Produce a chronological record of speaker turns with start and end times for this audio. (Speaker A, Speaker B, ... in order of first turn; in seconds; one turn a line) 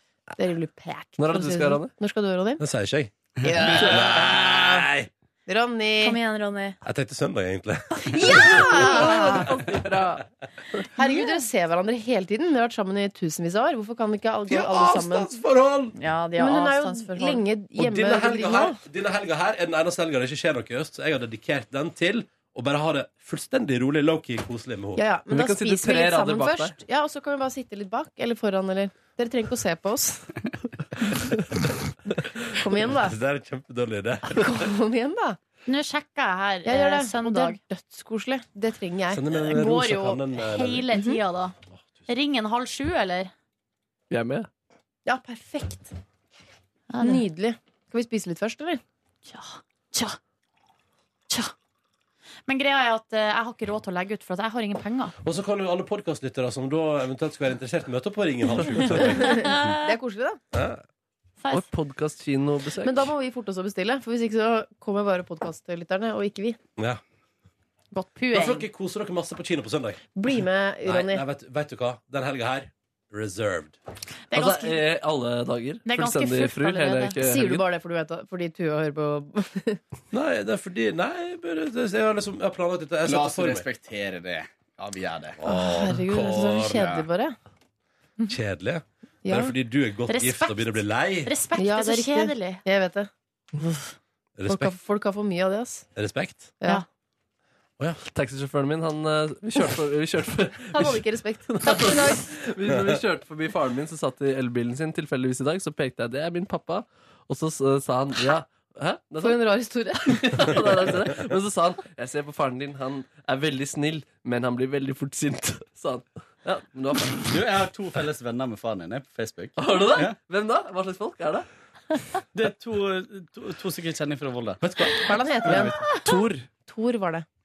Speaker A: 0.4-2.6
Speaker B: 1.2-1.9
Speaker C: 2.6-5.1
Speaker A: 3.4-4.8
Speaker A: 5.5-6.2
Speaker D: 6.0-6.8
Speaker C: 6.8-9.3
Speaker A: 8.1-9.6
Speaker B: 8.3-10.2
Speaker A: 10.9-15.3
Speaker C: 14.5-15.9
Speaker D: 16.0-17.4
Speaker A: 16.4-18.8
Speaker C: 17.8-25.0
Speaker A: 24.9-30.3
Speaker B: 25.3-26.8
Speaker A: 32.5-33.2
Speaker C: 32.8-34.6
Speaker A: 34.3-35.4
Speaker D: 35.7-37.6
Speaker A: 36.6-39.2
Speaker C: 39.1-40.9
Speaker D: 39.4-41.5
Speaker A: 40.9-41.2
Speaker D: 42.1-43.3
Speaker B: 44.1-44.5
Speaker A: 45.0-45.9
Speaker D: 46.9-47.2
Speaker A: 47.0-48.8
Speaker D: 49.3-50.2
Speaker D: 52.5-55.1
Speaker C: 55.2-59.4
Speaker D: 58.9-59.9
Speaker A: 59.0-60.4
Speaker C: 60.5-60.8
Speaker B: 61.5-63.1
Speaker A: 62.8-66.6
Speaker D: 67.9-68.7
Speaker C: 68.3-70.0
Speaker A: 70.2-71.2
Speaker C: 70.8-73.8
Speaker D: 74.3-74.8
Speaker B: 74.3-77.6
Speaker D: 75.8-77.1
Speaker A: 77.2-79.8
Speaker C: 80.1-83.7
Speaker E: 83.0-85.4
Speaker C: 85.4-86.8
Speaker A: 85.4-87.3
Speaker E: 86.7-87.0
Speaker C: 88.3-91.3
Speaker A: 89.2-89.5
Speaker D: 90.1-92.6
Speaker A: 91.6-93.9
Speaker C: 94.4-94.7
Speaker A: 94.5-95.9
Speaker C: 96.0-96.5
Speaker B: 98.1-109.4
Speaker A: 100.7-102.3
Speaker A: 109.2-110.7
Speaker B: 110.0-117.4
Speaker E: 117.3-120.2
Speaker B: 119.6-121.5
Speaker E: 122.3-124.6
Speaker C: 124.6-126.5
Speaker A: 124.8-127.2